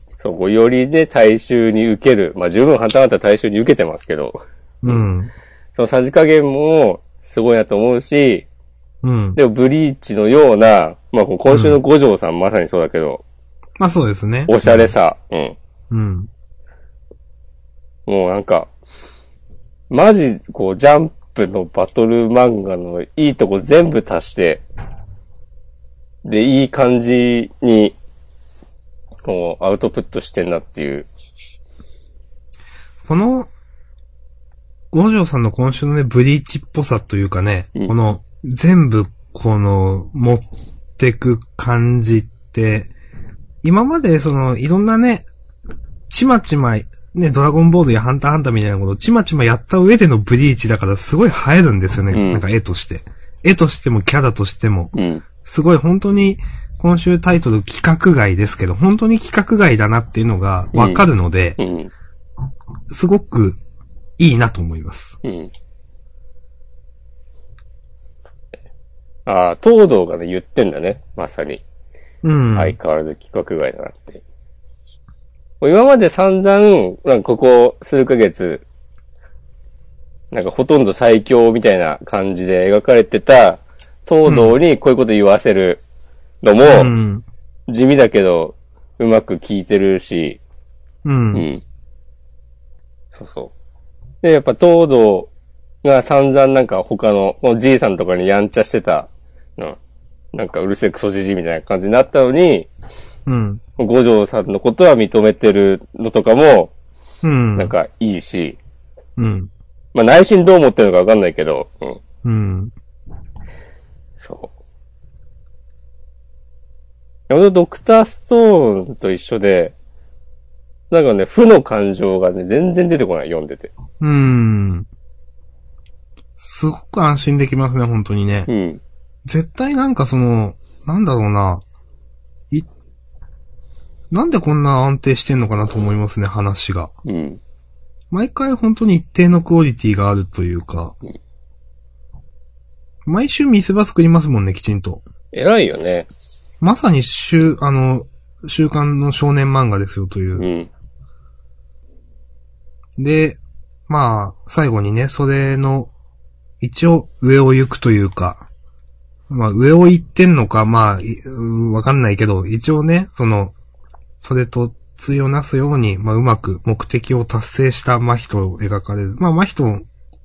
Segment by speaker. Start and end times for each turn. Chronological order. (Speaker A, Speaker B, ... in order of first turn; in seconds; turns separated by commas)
Speaker A: 0.2-5.0, Speaker B: 4.8-5.3, Speaker A: 5.8-8.5, Speaker B: 9.0-9.4, Speaker A: 9.4-13.2, Speaker B: 11.5-11.8, Speaker B: 13.8-14.9, Speaker A: 14.5-15.6, Speaker B: 15.9-16.3, Speaker A: 18.1-18.7, Speaker A: 19.9-24.6, Speaker A: 26.2-28.0, Speaker A: 29.2-31.1, Speaker B: 33.1-33.5, Speaker B: 34.9-40.5, Speaker B: 41.0-42.9, Speaker B: 43.6-45.3, Speaker B: 46.1-61.6, Speaker A: 52.1-52.4, Speaker A: 55.0-55.2, Speaker A: 60.7-61.9, Speaker B: 62.9-63.6, Speaker B: 64.2-65.2, Speaker A: 65.2-65.5, Speaker A: 69.3-71.6, Speaker B: 72.2-72.8, Speaker A: 72.5-74.2, Speaker A: 75.6-78.7, Speaker A: 80.3-85.8, Speaker B: 84.3-84.5, Speaker A: 86.4-86.9, Speaker B: 86.6-87.2, Speaker A: 87.7-90.4, Speaker B: 91.0-91.5, Speaker A: 91.3-91.6, Speaker A: 93.1-93.5, Speaker A: 94.2-95.3, Speaker A: 95.8-99.8, Speaker A: 100.3-102.7, Speaker B: 103.3-103.6, Speaker A: 103.8-106.7, Speaker B: 107.2-107.7, Speaker A: 107.6-108.6, Speaker B: 109.2-109.5, Speaker A: 109.9-112.0, Speaker B: 112.2-112.7, Speaker A: 114.2-114.5, Speaker A: 117.3-119.8, Speaker A: 120.9-123.7, Speaker B: 124.0-124.9, Speaker B: 126.4-128.5, Speaker A: 128.5-128.8, Speaker B: 129.3-131.6, Speaker B: 134.1-136.9, Speaker A: 137.1-137.4, Speaker B: 138.1-141.0, Speaker B: 143.1-145.0, Speaker A: 145.3-146.1, Speaker B: 146.6-150.5, Speaker A: 150.4-150.7, Speaker B: 153.0-155.9, Speaker B: 156.6-158.5, Speaker B: 159.3-163.6, Speaker B: 164.2-169.8